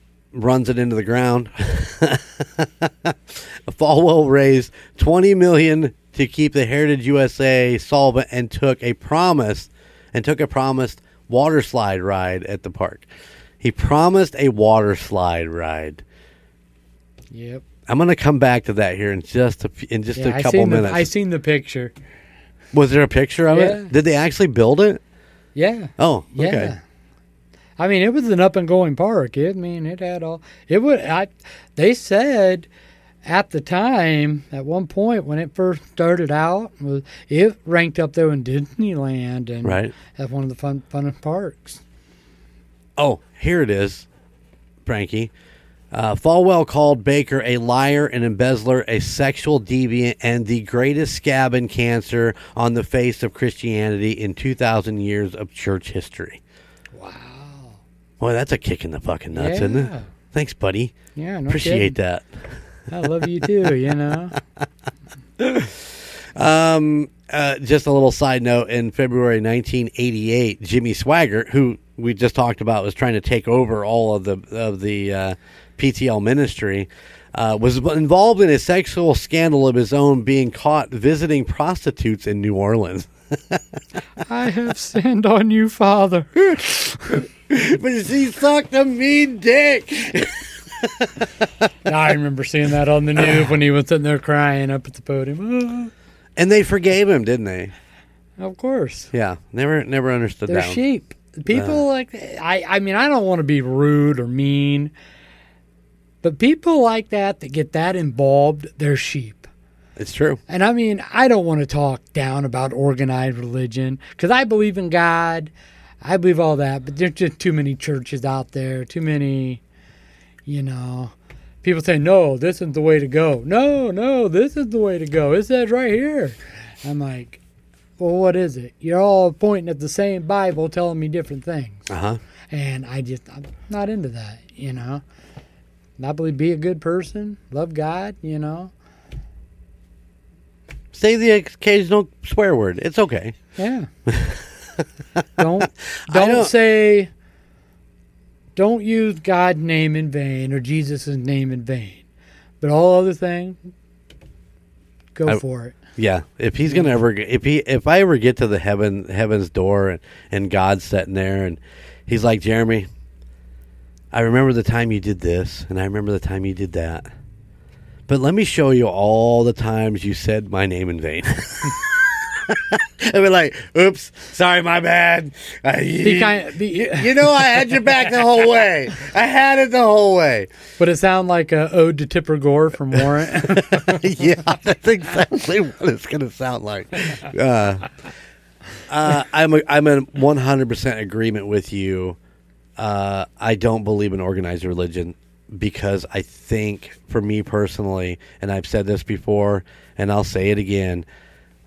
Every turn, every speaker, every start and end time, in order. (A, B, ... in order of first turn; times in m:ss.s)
0:00.3-0:13.1 A
0:13.6-0:16.0 A
0:17.3-0:17.6 B
0:17.9-0:21.1 A
0:20.2-0:21.9 B
0:22.7-0:25.0 A
0:23.5-0:23.9 B
0:25.6-0:26.8 B
0:26.0-0:26.7 A
0:27.8-0:32.7 B
0:33.3-0:41.8 B
0:39.6-0:40.0 A
0:43.0-0:44.1 A
0:44.8-0:45.3 A
0:45.9-0:56.4 A
0:56.9-0:57.8 B
0:58.2-1:00.9 A
0:59.3-1:00.1 B
1:01.2-1:02.0 B
1:01.5-1:02.6 A
1:02.9-1:04.4 B
1:05.4-1:23.6 A
1:24.2-1:27.3 B
1:27.5-1:31.3 A
1:31.8-1:35.9 B
1:36.4-1:37.7 A
1:38.4-1:39.1 B
1:39.1-1:40.8 A
1:40.5-1:44.9 B
1:41.5-1:41.8 A
1:46.2-1:49.5 B
1:50.0-1:50.4 A
1:50.5-1:55.5 B
1:56.0-1:59.6 B
2:00.5-2:07.4 B
2:08.0-2:11.9 B
2:11.9-2:12.2 A
2:12.5-2:15.0 B
2:16.0-2:18.7 B
2:20.9-2:23.4 A
2:23.6-2:23.9 B
2:24.1-2:25.2 A
2:25.4-2:27.1 B
2:26.0-2:26.5 A
2:28.6-2:32.0 B
2:32.6-2:33.7 B
2:35.2-2:35.8 B
2:36.0-2:42.9 A
2:44.1-2:47.1 A
2:48.1-3:00.5 A
2:56.0-2:57.2 B
3:00.8-3:04.0 B
3:03.3-3:07.9 A
3:08.9-3:12.2 A
3:12.8-3:21.0 A